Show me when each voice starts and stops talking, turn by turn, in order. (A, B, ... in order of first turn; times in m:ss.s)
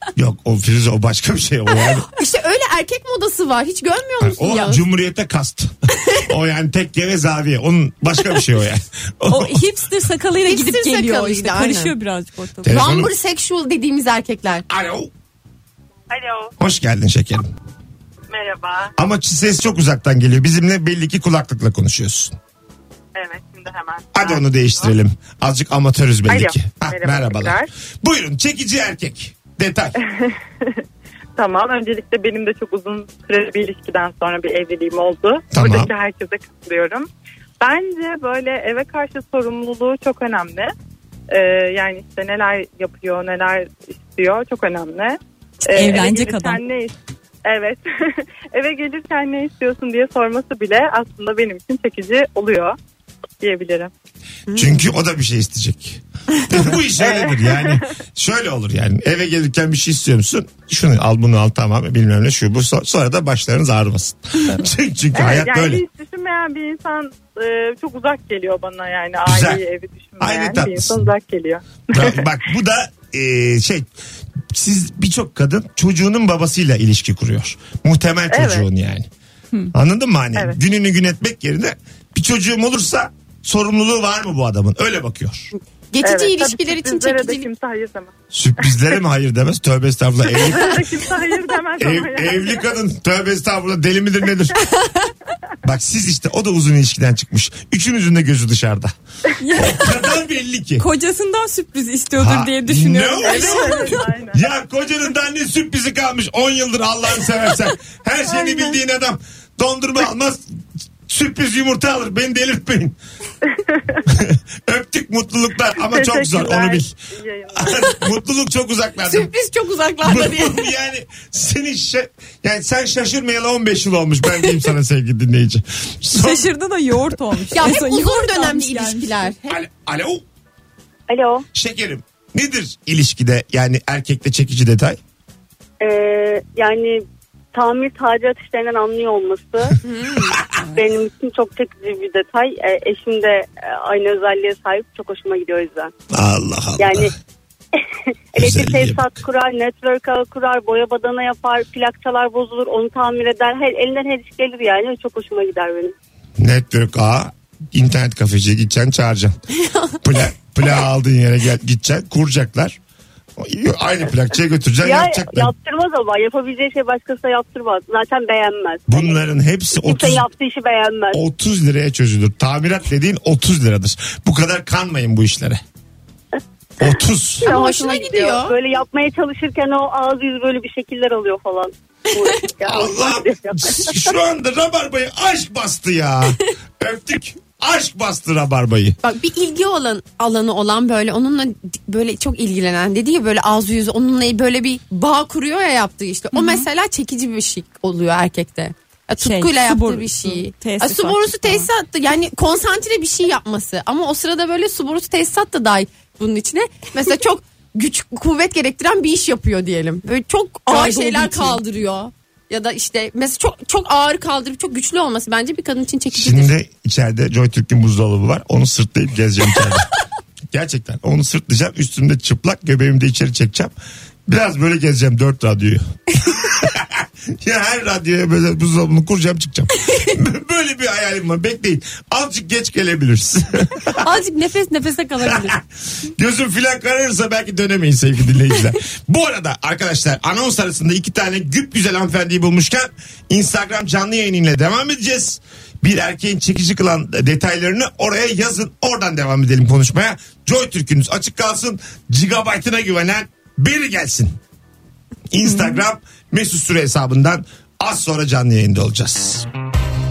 0:00.2-0:02.1 A
0:02.1-0:04.8 B
0:04.2-0:09.6 A
0:09.3-0:12.8 C
0:10.4-0:11.9 B
0:12.6-0:13.1 A
0:12.6-0:14.6 B
0:14.7-0:15.1 A
0:16.6-0:17.5 A
0:18.3-0:18.6 D
0:19.0-0:22.4 A
0:23.1-0:24.9 D
0:24.1-0:30.0 A
0:26.3-0:27.7 D
0:30.0-0:30.8 D
0:31.4-0:37.1 D
0:35.5-0:35.9 A
0:37.6-0:40.7 D
0:41.3-0:52.8 D
0:45.7-0:46.6 C
0:53.4-0:53.9 D
0:54.5-1:05.8 A
0:57.0-0:57.8 D
1:05.1-1:12.3 D
1:09.2-1:09.6 A
1:10.2-1:11.0 A
1:11.9-1:13.9 A
1:14.5-1:19.1 A
1:18.3-1:18.6 D
1:19.7-1:25.5 A
1:25.9-1:27.5 B
1:26.0-1:28.1 D
1:28.3-1:30.8 A
1:30.3-1:32.7 D
1:31.8-1:34.6 A
1:35.6-1:38.9 A
1:39.4-1:40.0 C
1:39.5-1:40.8 A
1:40.8-1:44.0 C
1:42.2-1:50.4 A
1:43.2-1:44.4 D
1:48.4-1:48.7 D
1:51.1-1:53.0 A
1:54.1-1:56.9 A
1:55.8-1:57.9 D
1:57.5-1:59.3 A
1:59.1-2:00.7 B
2:00.0-2:06.5 A
2:06.1-2:09.3 C
2:07.5-2:09.6 B
2:09.5-2:10.2 A
2:11.1-2:11.4 E
2:11.5-2:15.0 A
2:15.8-2:17.0 E
2:17.5-2:19.8 E
2:19.8-2:20.3 B
2:20.7-2:25.9 E
2:26.1-2:27.1 A
2:26.8-2:27.1 E
2:28.3-2:35.9 E
2:28.4-2:29.2 A
2:36.4-2:39.4 A
2:40.0-2:42.8 A
2:43.4-2:45.5 A
2:44.8-2:49.2 E
2:48.9-2:50.2 A
2:49.7-2:51.2 E
2:51.1-2:55.6 A
2:56.8-2:57.5 A
2:57.4-3:04.1 E
2:57.4-2:58.5 B
3:02.6-3:09.0 A
3:09.0-3:36.5 B
3:16.3-3:16.6 C
3:19.2-3:21.7 C
3:30.7-3:31.6 C
3:36.1-3:39.9 A
3:40.5-3:43.7 A
3:44.3-3:54.1 A
3:54.0-3:55.6 B
3:55.2-4:14.4 A
4:15.3-4:19.5 A
4:15.4-4:15.8 C